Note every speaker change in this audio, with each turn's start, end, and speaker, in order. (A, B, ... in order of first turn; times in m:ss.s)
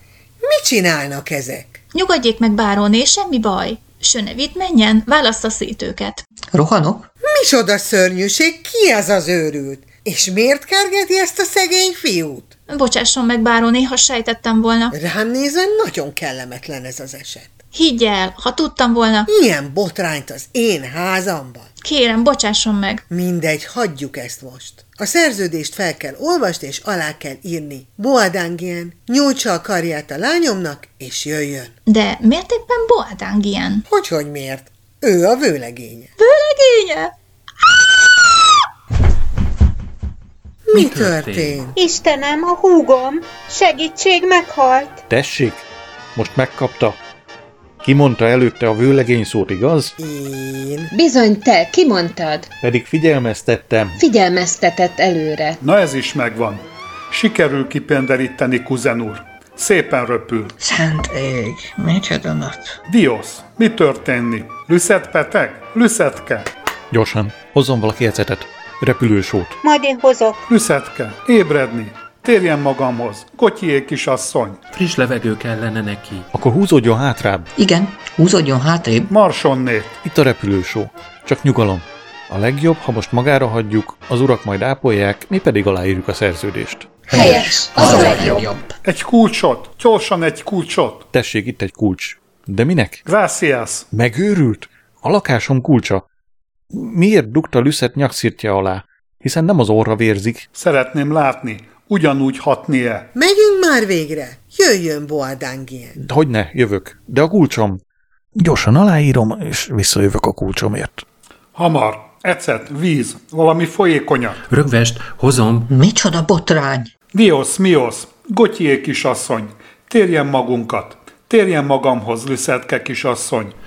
0:00.4-0:01.8 A
0:01.9-0:06.2 B
0:06.5-0:07.1 C
0:07.2-0:12.5 A
0:12.7-0:15.0 B
0:14.9-0:17.5 A
0:17.7-0:19.3 B
0:19.3-0:21.7 A
0:21.8-0:23.0 B
0:23.1-0:31.8 A
0:31.9-0:33.9 B
0:33.9-0:36.1 A
0:36.2-0:37.1 B
0:40.7-0:41.8 A
0:40.7-0:41.7 D
0:41.8-0:45.0 E
0:45.1-0:47.0 F
0:47.8-0:49.9 F
0:50.0-0:50.9 A
0:50.9-0:52.5 G
0:52.6-0:54.0 F
0:54.0-0:55.6 G
0:55.6-1:00.5 H
1:00.6-1:02.8 C
1:02.9-1:06.5 H
1:06.9-1:09.6 F
1:09.6-1:10.4 E
1:10.5-1:14.6 H
1:14.7-1:16.3 D
1:16.3-1:17.5 F
1:17.6-1:19.1 C
1:19.1-1:20.0 H
1:20.0-1:27.0 F
1:27.1-1:28.4 G
1:27.1-1:28.7 C
1:28.8-1:31.1 H
1:31.1-1:33.0 F
1:33.1-1:33.9 H
1:33.9-1:36.0 F
1:36.7-1:40.4 F
1:40.6-1:43.1 H
1:43.2-1:46.0 A
1:46.0-1:47.8 F
1:48.4-1:51.0 F
1:51.6-1:54.4 H
1:54.5-1:55.7 D
1:55.7-1:56.9 C
1:57.1-2:03.6 H